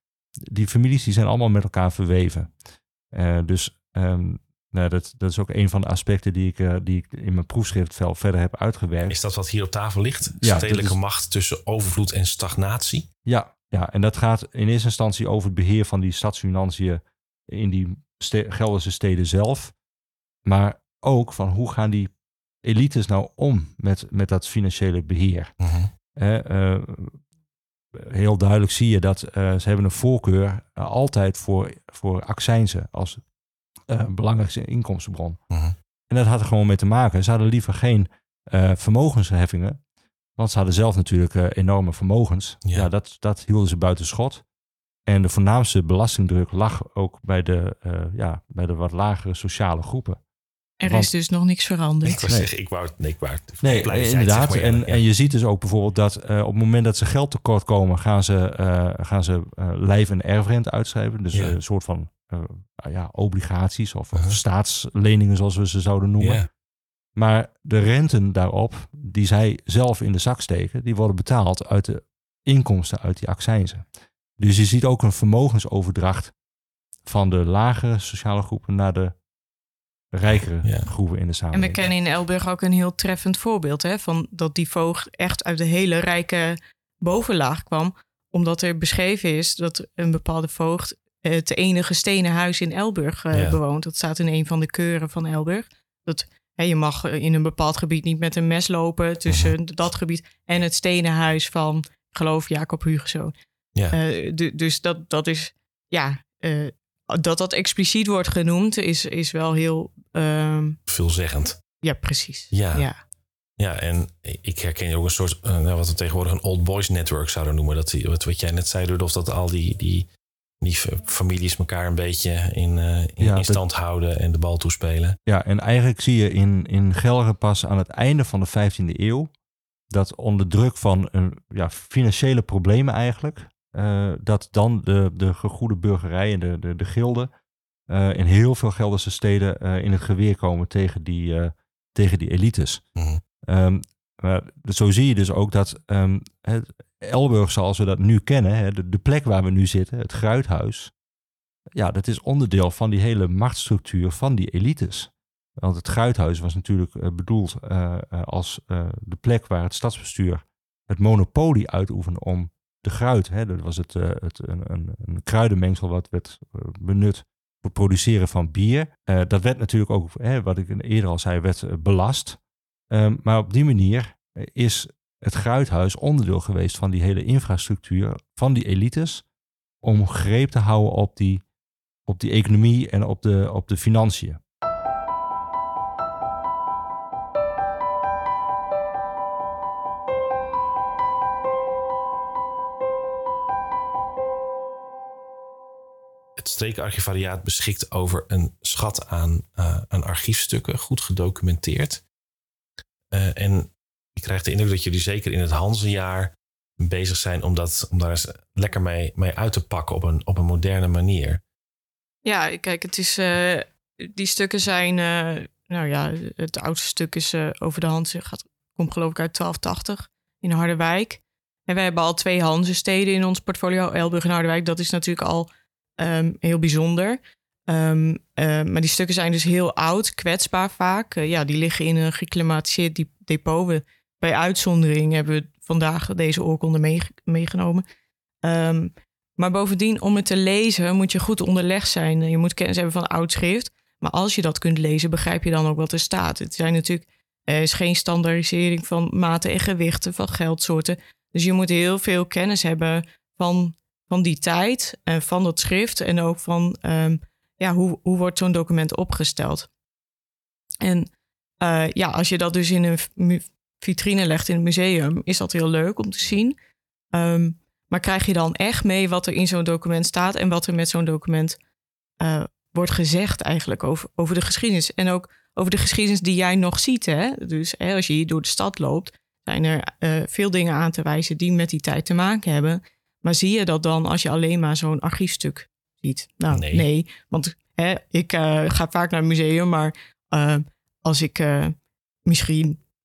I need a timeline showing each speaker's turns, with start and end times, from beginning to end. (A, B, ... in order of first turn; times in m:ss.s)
0:00.4-0:02.5 A
0:03.1-0:09.2 A
0:09.1-0:13.1 B
0:10.4-0:11.0 A
0:13.2-0:19.7 A
0:20.4-0:22.1 A
0:22.6-0:25.5 A
0:25.6-0:25.9 B
0:26.2-0:27.2 A
0:27.9-0:33.2 A
0:33.9-0:35.4 A
0:36.1-0:39.8 A
0:40.4-0:44.4 A
0:45.1-0:50.2 A
0:50.8-0:52.2 C
0:50.8-0:51.1 A
0:52.0-0:55.0 B
0:53.6-1:06.4 A
1:06.2-1:06.5 B
1:07.2-1:13.8 A
1:14.4-1:16.3 A
1:17.0-1:19.1 A
1:20.1-1:21.9 A
1:20.6-1:20.9 B
1:21.5-1:43.3 C
1:33.3-1:33.6 B
1:39.3-1:39.5 B
1:43.9-1:50.8 C
1:50.9-1:51.6 B
1:51.8-1:53.0 C
1:52.5-1:52.9 B
1:53.6-2:00.1 B
2:00.6-2:05.2 B
2:03.2-2:03.6 A
2:05.2-2:09.3 A
2:09.9-2:17.3 A
2:17.9-2:22.8 A
2:23.0-2:23.2 B
2:23.4-2:30.9 A
2:31.7-2:52.4 A
2:52.9-2:59.2 A
2:59.8-3:01.4 A
3:02.0-3:04.4 A
3:16.4-3:22.0 B
3:23.1-3:31.4 B
3:32.2-3:57.8 C
3:58.4-4:19.7 C
4:20.8-4:21.1 C
4:21.6-4:26.6 C
4:27.1-4:31.6 C
4:32.2-4:51.7 C
4:46.5-4:46.9 B
4:52.2-4:52.8 C